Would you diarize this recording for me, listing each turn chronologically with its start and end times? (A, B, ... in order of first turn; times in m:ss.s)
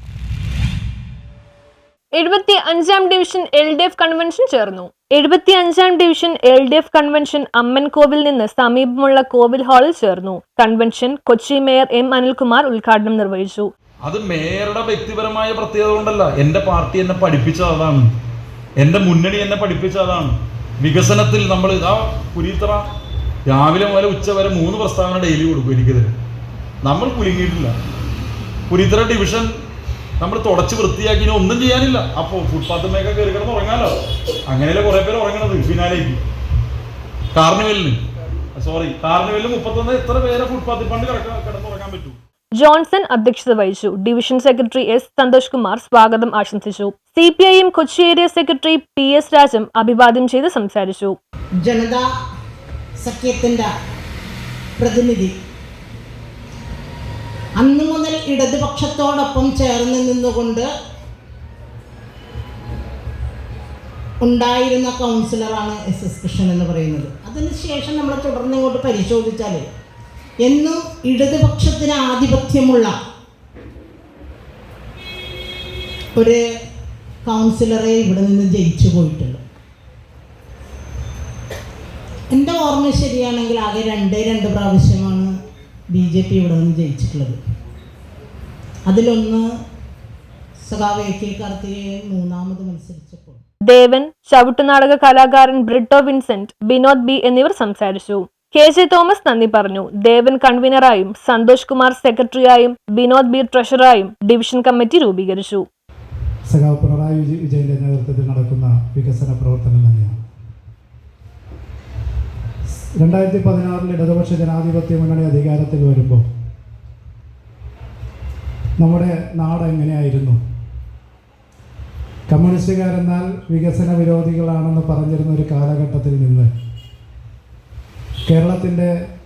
0:02.1-0:13.7 A
0:14.0-0:18.1 B
0:18.8-0:22.8 B
0:23.5-0:26.1 B
0:26.8-0:27.7 B
0:28.7-0:29.5 B
0:30.2-0:34.0 B
0:34.5-0:36.2 B
0:37.3-0:38.0 B
0:38.6-0:42.2 B
0:42.5-0:51.2 A
0:51.6-0:52.0 C
0:53.0-0:53.7 C
0:54.8-0:55.3 C
0:57.6-1:00.7 C
1:04.2-1:09.6 C
1:10.4-1:12.9 C
1:16.2-1:16.4 C
1:17.2-1:19.4 C
1:22.3-1:25.3 C
1:25.9-1:27.4 C
1:28.9-1:29.5 C
1:30.6-1:33.4 C
1:33.6-1:45.6 A
1:46.5-1:50.2 D
1:53.0-1:56.2 D
1:58.8-2:00.4 D
2:02.3-2:06.5 D
2:08.3-2:08.9 D